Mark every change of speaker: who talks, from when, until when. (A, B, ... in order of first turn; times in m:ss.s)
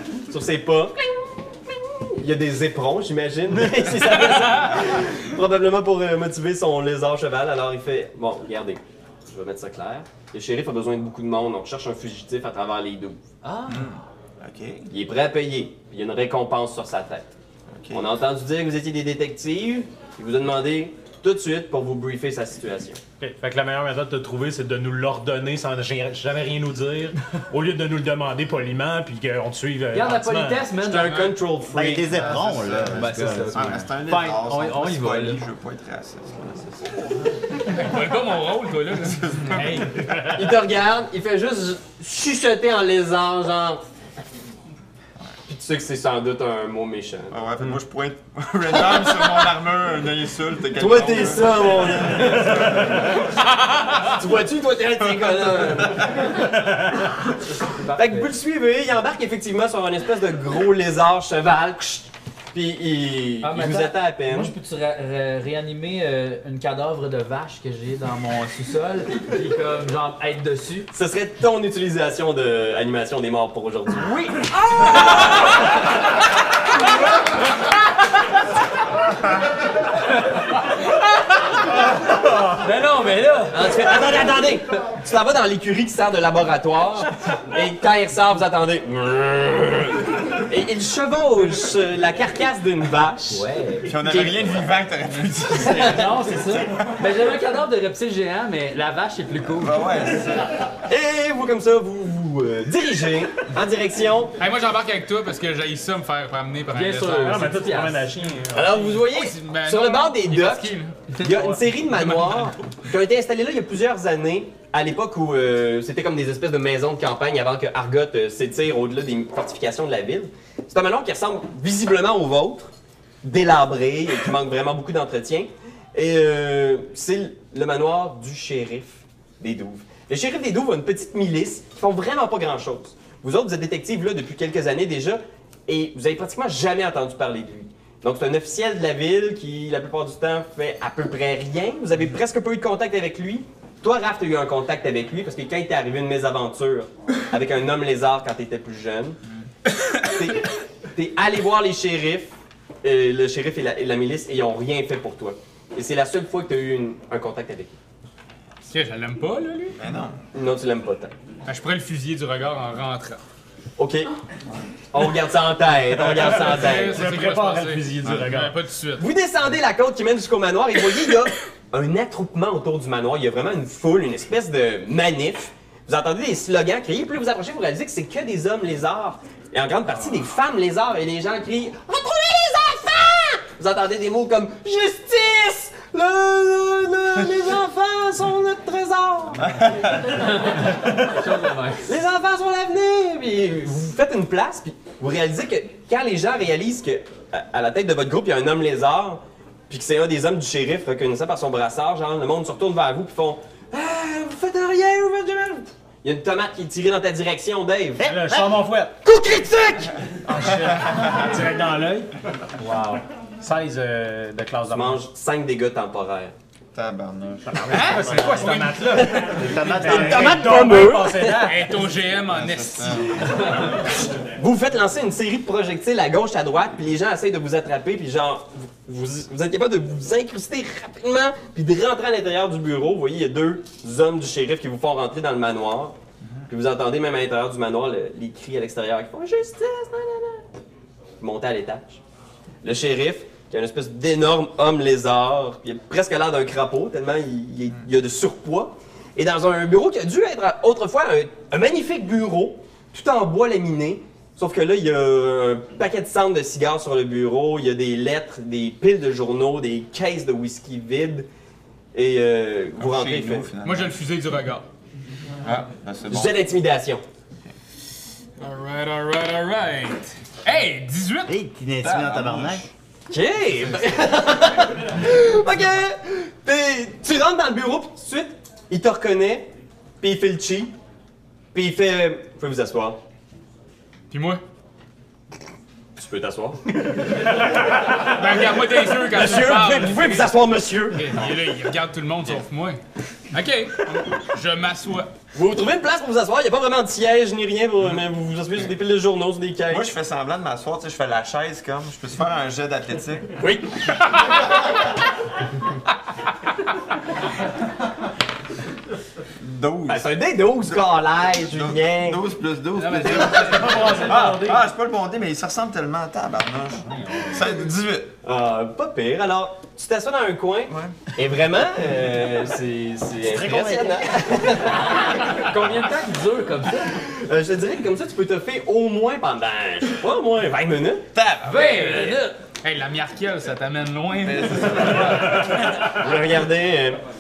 0:00.3-0:01.1 A
0:02.0-0:13.2 A
0:13.4-0:13.9 B
0:13.7-0:14.9 C
0:14.9-0:17.3 A
0:17.7-0:18.0 C
0:17.9-0:23.0 A
0:23.2-0:30.7 D
0:29.9-0:31.3 B
0:30.8-0:32.2 A
0:31.7-0:33.9 E
0:32.1-0:37.3 C
0:32.9-0:35.4 B
0:37.6-0:39.8 F
0:39.2-0:40.0 C
0:39.9-0:40.4 D
0:40.3-0:43.8 A
0:45.5-0:47.3 A
0:47.3-0:53.3 C
0:48.7-0:49.5 A
0:50.8-0:53.1 A
0:54.0-0:56.5 A
0:55.4-0:56.1 C
0:57.5-0:58.3 B
0:57.9-1:04.5 A
1:03.4-1:10.9 B
1:10.9-1:14.1 A
1:14.0-1:15.1 B
1:14.8-1:15.3 A
1:22.6-1:23.6 B
1:23.5-1:33.4 A
1:33.3-1:33.9 B
1:33.8-1:36.7 C
1:34.0-1:34.5 A
1:35.6-1:36.1 A
1:35.7-1:39.8 B
1:39.4-1:40.5 C
1:40.8-1:44.3 A
1:44.4-1:47.5 F
1:46.7-1:48.0 B
1:47.2-1:48.9 D
1:48.5-2:02.7 A
1:49.0-1:51.0 F
1:51.8-1:52.5 F
2:03.2-2:29.2 A
2:30.0-2:37.8 A
2:38.6-2:39.8 F
2:39.8-2:40.2 C
2:40.3-2:41.1 A
2:41.5-2:43.2 F
2:43.8-2:44.1 A
2:44.9-2:47.0 A
2:46.0-2:49.0 F
2:46.2-2:48.6 D
2:49.0-3:09.6 A
3:09.4-3:10.4 C
3:10.1-3:11.9 B
3:11.8-3:28.0 A
3:28.0-3:28.6 E
3:28.0-3:28.9 D
3:29.0-3:29.9 A
3:30.3-3:35.0 D
3:34.7-3:36.3 A
3:36.7-3:37.7 C
3:37.4-3:41.8 D
3:37.7-3:39.4 F
3:37.8-3:38.6 E
3:38.9-3:41.5 A
3:39.4-3:40.5 E
3:41.4-3:43.3 F
3:42.2-3:43.4 C
3:43.5-3:56.0 A
3:56.5-4:00.4 A
4:01.2-4:02.0 A
4:02.6-4:21.3 A
4:21.9-4:23.5 A
4:22.8-4:24.0 C
4:23.6-4:24.6 F
4:25.4-4:26.4 C
4:26.1-4:27.0 A
4:28.4-4:31.3 F
4:31.3-4:32.6 E
4:31.8-4:32.7 C
4:33.1-4:39.5 A
4:40.0-4:40.7 A
4:41.5-4:43.0 A
4:44.1-4:44.4 F
4:46.0-4:47.3 A
4:47.9-4:50.3 F
4:49.0-4:51.1 A
4:50.9-4:52.8 F
4:53.3-4:55.1 F
4:55.3-4:59.9 A
4:59.7-5:03.4 C
5:03.4-5:03.7 A
5:09.4-5:10.1 C
5:09.9-5:12.2 A
5:11.5-5:18.1 C
5:12.8-5:13.6 F
5:13.0-5:14.6 D
5:16.9-5:17.5 B
5:18.2-5:25.3 A
5:20.7-5:21.0 C
5:23.2-5:24.1 E
5:25.3-5:27.0 B
5:27.0-5:31.0 A
5:31.1-5:32.1 C
5:31.5-5:32.3 B
5:31.5-5:35.4 F
5:34.2-5:35.7 C
5:35.4-5:37.0 A